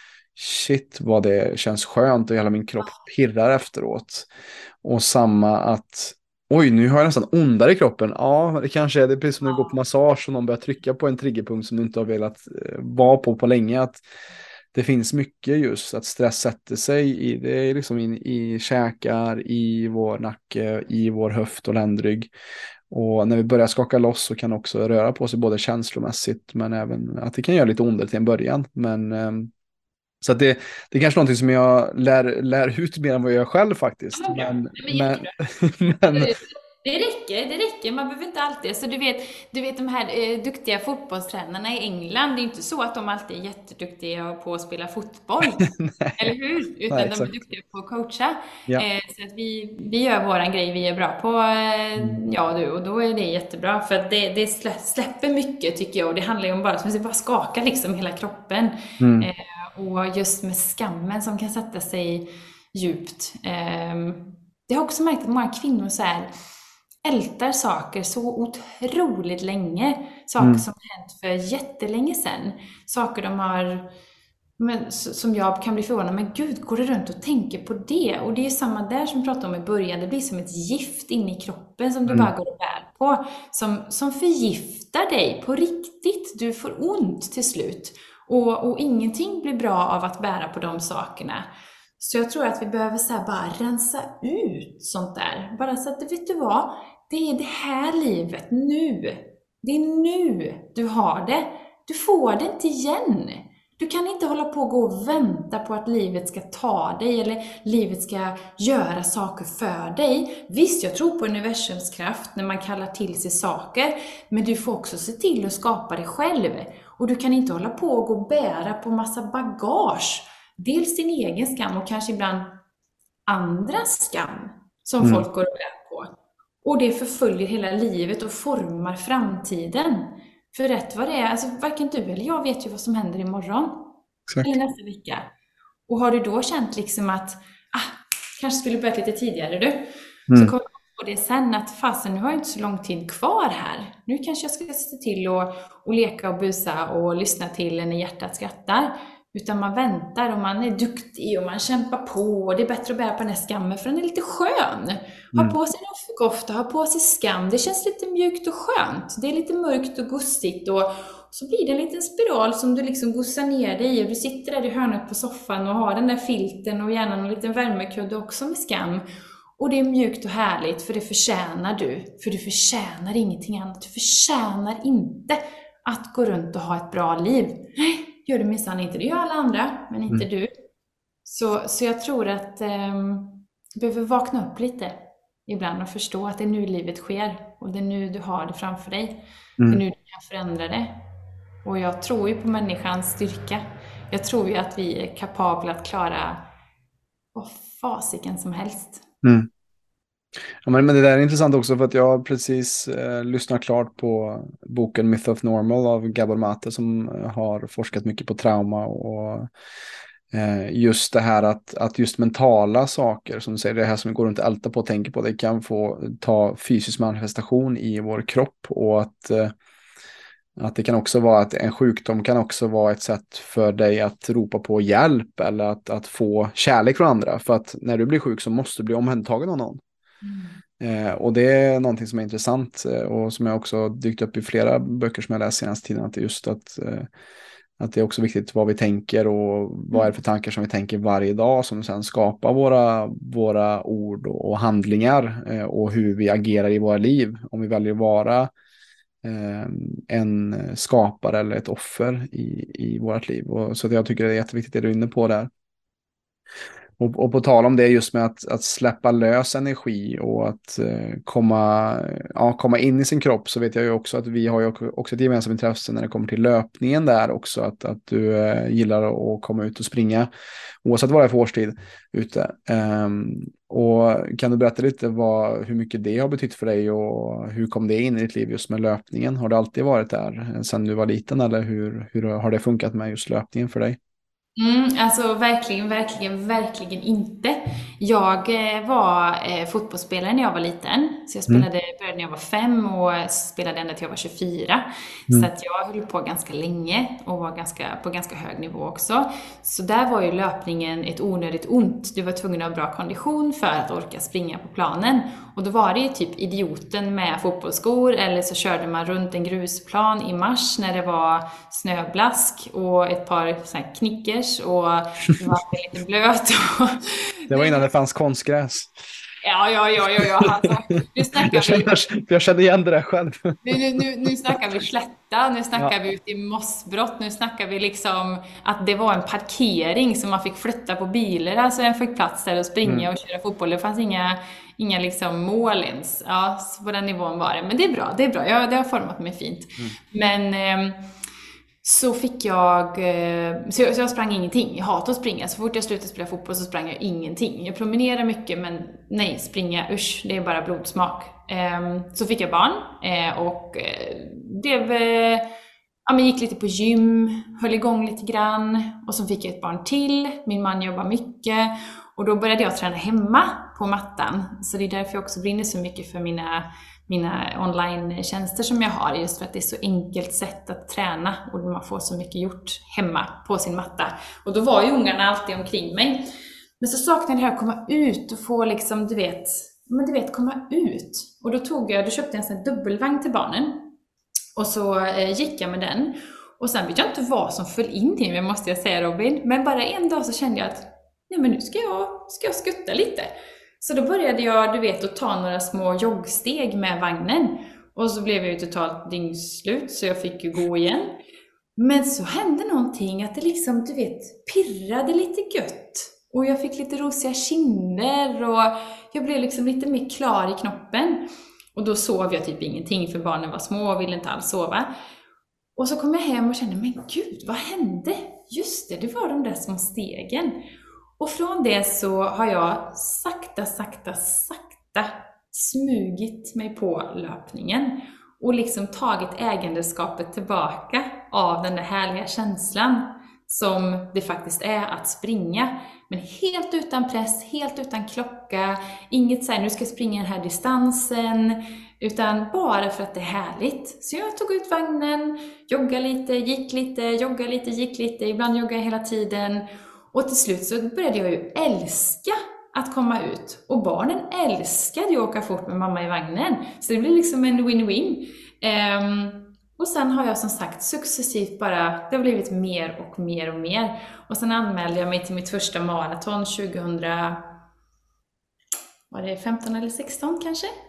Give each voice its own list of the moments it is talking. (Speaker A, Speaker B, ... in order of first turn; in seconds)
Speaker A: 0.4-4.3, 4.8-14.0, 14.7-22.3, 22.9-29.5, 30.2-36.3, 45.6-46.4, 46.9-47.3, 59.0-59.3, 70.4-70.7, 134.3-134.6, 199.2-199.5, 200.6-209.5, 210.3-219.5, 220.6-229.8, 230.8-237.1, 237.8-248.5, 249.2-255.5, 257.0-270.3, 270.8-284.0, 317.5-318.9, 320.2-320.6, 321.2-323.8
Speaker B: 9.4-9.8, 34.1-66.3, 67.0-73.9, 74.6-91.5, 92.0-122.5, 123.3-126.1, 126.6-133.9, 134.4-135.3, 135.9-169.0, 169.6-180.5, 181.3-185.0, 185.5-191.0, 191.7-196.4, 197.3-199.0, 230.2-230.6, 284.6-317.9, 319.4-321.9, 323.6-341.0, 341.8-355.5, 356.1-376.2, 376.8-383.9, 384.6-393.3, 393.8-401.2, 401.8-414.9, 415.8-420.6, 421.2-467.5, 469.1-470.7